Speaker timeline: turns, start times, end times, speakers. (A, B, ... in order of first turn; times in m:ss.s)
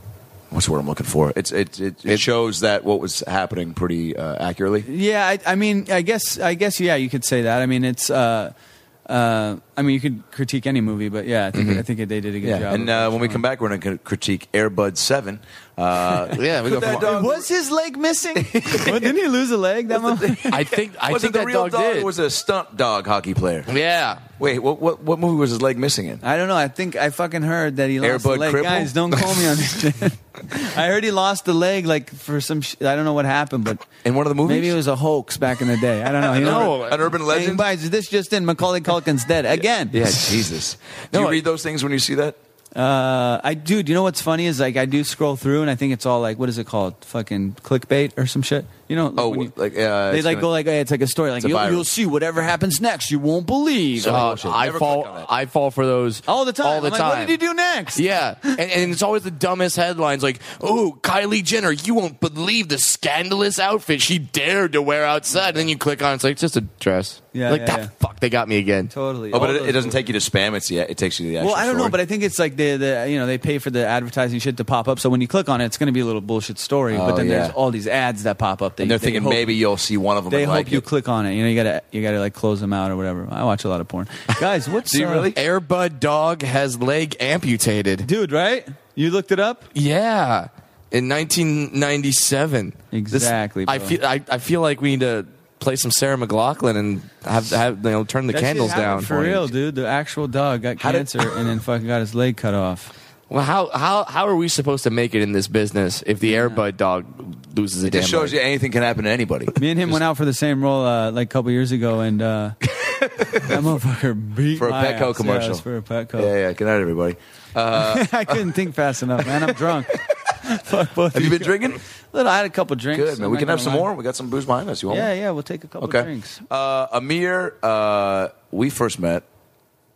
0:00.5-0:04.9 A
0:04.9-0:08.5 B
0:09.1-0:13.4 B
0:11.5-0:11.8 C
0:12.4-0:17.5 A
0:16.2-0:17.1 C
0:17.0-0:20.6 B
0:18.4-0:19.1 A
0:20.0-0:23.7 A
0:20.5-0:22.1 C
0:23.7-0:24.2 C
0:24.4-0:26.2 A
0:26.2-0:33.8 B
0:28.0-0:29.4 A
0:34.0-0:34.8 A
0:34.4-0:40.0 B
0:36.3-0:37.1 C
0:36.3-0:37.7 A
0:39.9-0:42.4 A
0:41.1-0:41.4 C
0:42.8-0:49.5 B
0:49.2-0:50.5 A
0:50.1-0:54.3 B
0:51.4-0:51.9 A
0:54.0-0:55.3 A
0:54.0-0:57.4 C
0:56.3-0:58.6 B
0:57.9-1:08.9 C
1:07.3-1:07.9 B
1:08.9-1:10.0 B
1:09.3-1:12.0 A
1:11.4-1:19.6 B
1:16.9-1:17.6 A
1:18.8-1:20.8 A
1:20.3-1:25.3 B
1:24.9-1:25.4 A
1:25.3-1:28.1 C
1:28.0-1:29.7 B
1:29.7-1:39.5 C
1:32.9-1:34.0 B
1:38.3-1:42.9 B
1:40.8-1:41.3 A
1:43.3-1:48.4 C
1:46.2-1:46.6 B
1:47.8-1:49.9 A
1:49.6-1:52.6 B
1:52.8-1:53.6 A
1:53.4-1:56.3 B
1:54.6-1:55.6 A
1:56.2-1:58.6 A
1:57.7-2:01.6 B
1:59.2-2:00.0 A
2:01.1-2:01.8 A
2:02.1-2:03.9 B
2:02.9-2:05.1 A
2:04.9-2:06.4 B
2:05.8-2:09.2 A